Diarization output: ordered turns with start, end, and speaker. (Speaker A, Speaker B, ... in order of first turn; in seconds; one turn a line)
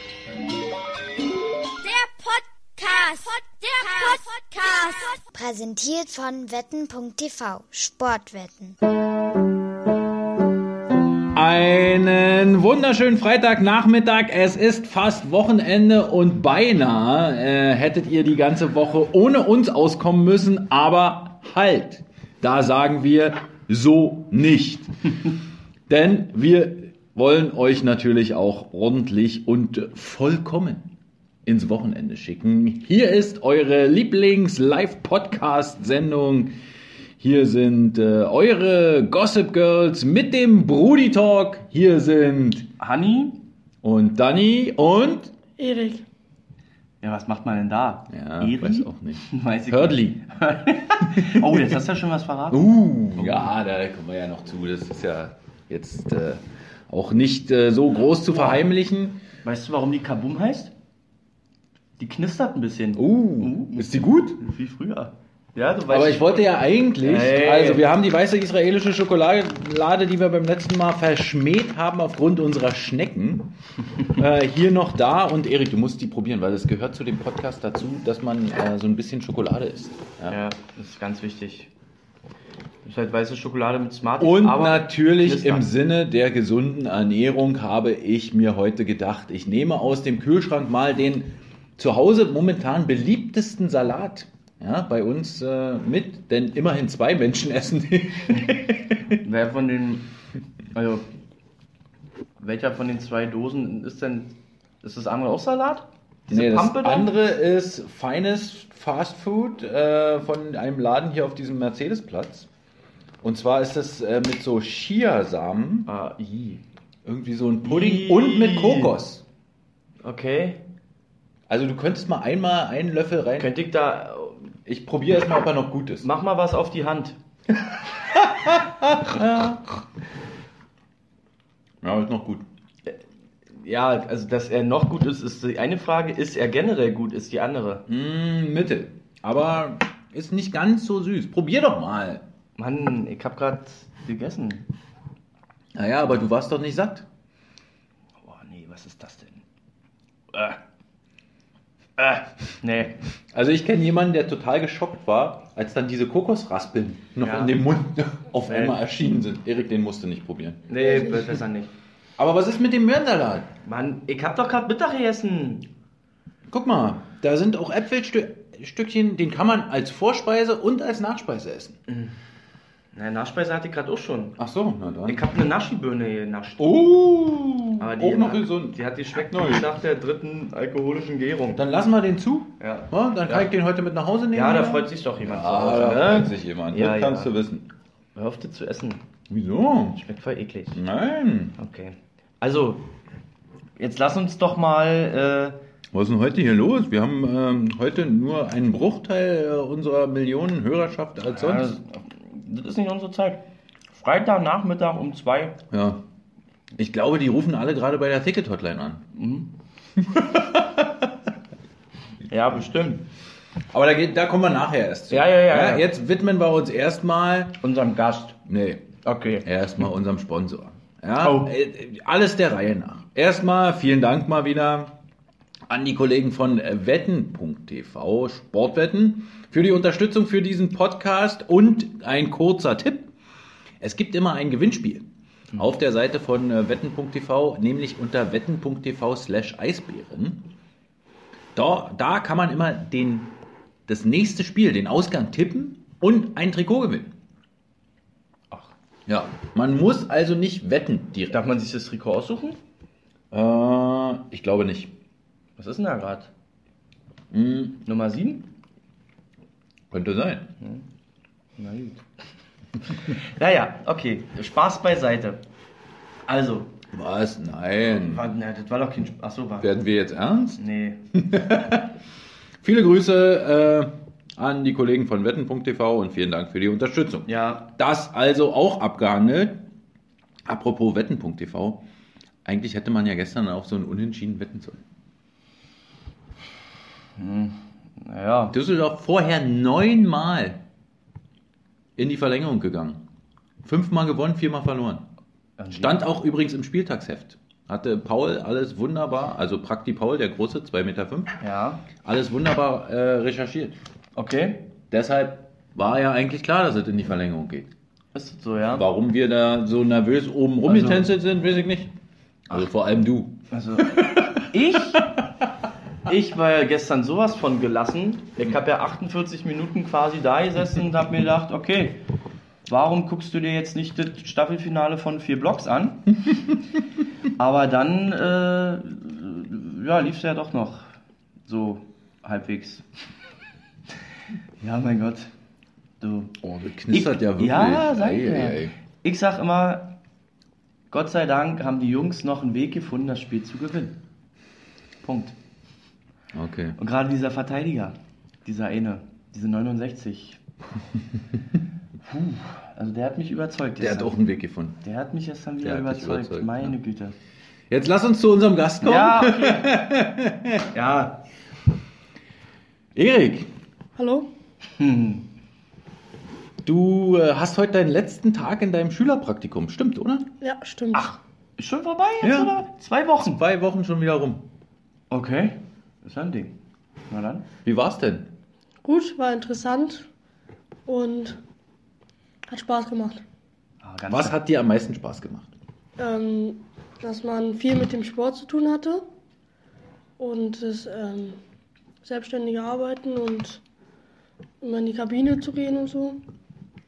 Speaker A: 1.8-5.2
Speaker B: 5.3-8.8
Speaker C: 11.3-25.3
Speaker C: 25.9-30.9
Speaker C: 31.4-36.5
Speaker C: 37.2-42.7
Speaker D: 42.8-43.4
Speaker C: 43.8-45.3
Speaker E: 45.6-46.0
Speaker D: 47.0-53.5
Speaker C: 48.1-50.2
Speaker C: 51.2-51.7
Speaker C: 52.5-59.2
Speaker D: 58.3-58.6
Speaker D: 59.4-60.7
Speaker D: 62.0-63.9
Speaker C: 62.9-64.4
Speaker D: 64.4-67.8
Speaker C: 65.9-73.5
Speaker C: 74.1-80.4
Speaker D: 80.3-81.7
Speaker D: 82.8-85.7
Speaker C: 84.2-99.2
Speaker D: 99.2-100.1
Speaker D: 100.7-101.0
Speaker D: 102.4-107.1
Speaker C: 106.3-112.5
Speaker C: 113.2-115.9
Speaker D: 115.8-116.6
Speaker C: 117.0-119.2
Speaker D: 117.6-118.9
Speaker D: 120.0-120.6
Speaker C: 121.5-123.5
Speaker D: 123.4-124.5
Speaker C: 124.7-126.1
Speaker D: 126.0-127.2
Speaker C: 127.7-129.6
Speaker C: 131.8-132.4
Speaker D: 133.5-137.8
Speaker C: 137.9-142.2
Speaker D: 142.6-144.7
Speaker C: 145.7-147.1
Speaker D: 148.2-149.4
Speaker D: 150.3-150.6
Speaker D: 152.0-152.9
Speaker C: 153.3-160.7
Speaker D: 157.2-157.6
Speaker D: 158.4-158.8
Speaker D: 160.7-161.7
Speaker C: 162.2-163.5
Speaker D: 163.6-165.7
Speaker C: 166.5-171.8
Speaker D: 171.9-172.1
Speaker D: 172.9-174.4
Speaker C: 174.4-175.3
Speaker D: 175.1-176.8
Speaker C: 176.6-179.7
Speaker D: 177.8-181.6
Speaker C: 181.5-187.7
Speaker D: 182.6-183.5
Speaker D: 184.3-187.3
Speaker D: 188.1-189.0
Speaker C: 189.3-190.0
Speaker D: 189.9-190.8
Speaker C: 190.7-191.6
Speaker D: 191.6-192.9
Speaker D: 193.8-195.6
Speaker C: 195.9-201.8
Speaker D: 201.3-203.4
Speaker D: 203.9-205.6
Speaker C: 205.7-206.0
Speaker C: 206.8-209.0
Speaker D: 209.1-209.5
Speaker C: 210.0-211.1
Speaker D: 212.3-213.0
Speaker C: 213.7-217.6
Speaker D: 215.1-215.8
Speaker D: 217.6-218.4
Speaker C: 218.4-224.9
Speaker D: 219.0-219.8
Speaker D: 221.2-221.5
Speaker C: 225.7-233.1
Speaker C: 233.8-240.5
Speaker C: 241.5-243.3
Speaker C: 243.9-247.1
Speaker C: 249.1-251.4
Speaker D: 251.3-252.6
Speaker C: 253.3-254.9
Speaker D: 255.6-256.3
Speaker C: 257.3-257.8
Speaker D: 257.8-258.5
Speaker C: 259.9-260.5
Speaker D: 261.6-262.0
Speaker D: 262.9-265.4
Speaker D: 266.3-266.7
Speaker C: 266.9-268.2
Speaker D: 268.0-269.7
Speaker C: 269.6-270.6
Speaker D: 270.6-271.0
Speaker C: 271.1-271.9
Speaker C: 272.6-279.6
Speaker D: 277.2-277.7
Speaker C: 280.4-281.8
Speaker C: 282.4-284.8
Speaker D: 287.1-288.5
Speaker C: 288.5-290.6
Speaker C: 292.0-293.0
Speaker C: 293.6-295.0
Speaker D: 295.6-296.0
Speaker C: 295.7-301.4
Speaker D: 301.4-301.9
Speaker C: 302.0-303.8
Speaker D: 304.1-304.7
Speaker C: 304.9-307.7
Speaker D: 308.1-308.9
Speaker C: 308.7-311.9
Speaker D: 310.6-311.1
Speaker C: 312.5-314.4
Speaker D: 313.5-315.2
Speaker C: 314.9-315.2
Speaker D: 316.1-322.0
Speaker D: 322.6-326.3
Speaker D: 327.4-330.9
Speaker D: 331.4-332.8
Speaker D: 334.6-335.3
Speaker D: 336.0-336.3
Speaker C: 336.4-338.7
Speaker D: 336.9-339.9
Speaker D: 340.9-343.9
Speaker D: 345.0-345.3
Speaker C: 346.3-346.8
Speaker D: 346.8-350.4
Speaker D: 352.0-354.2
Speaker C: 353.8-354.8
Speaker D: 354.8-357.1
Speaker C: 355.6-356.7
Speaker C: 357.7-360.7
Speaker D: 358.8-359.8
Speaker D: 360.7-361.2
Speaker C: 362.9-363.5
Speaker E: 364.0-364.3
Speaker D: 364.8-365.3
Speaker C: 366.6-370.3
Speaker E: 370.4-371.1
Speaker D: 370.9-373.4
Speaker C: 372.2-372.5
Speaker C: 373.2-374.4
Speaker D: 375.1-376.5
Speaker D: 377.1-377.5
Speaker C: 377.6-378.3
Speaker E: 378.8-380.1
Speaker E: 380.9-381.4
Speaker E: 382.5-383.2
Speaker D: 383.8-384.4
Speaker C: 384.1-385.5
Speaker E: 386.0-389.0
Speaker E: 390.2-391.4
Speaker E: 392.0-393.6
Speaker E: 394.6-396.2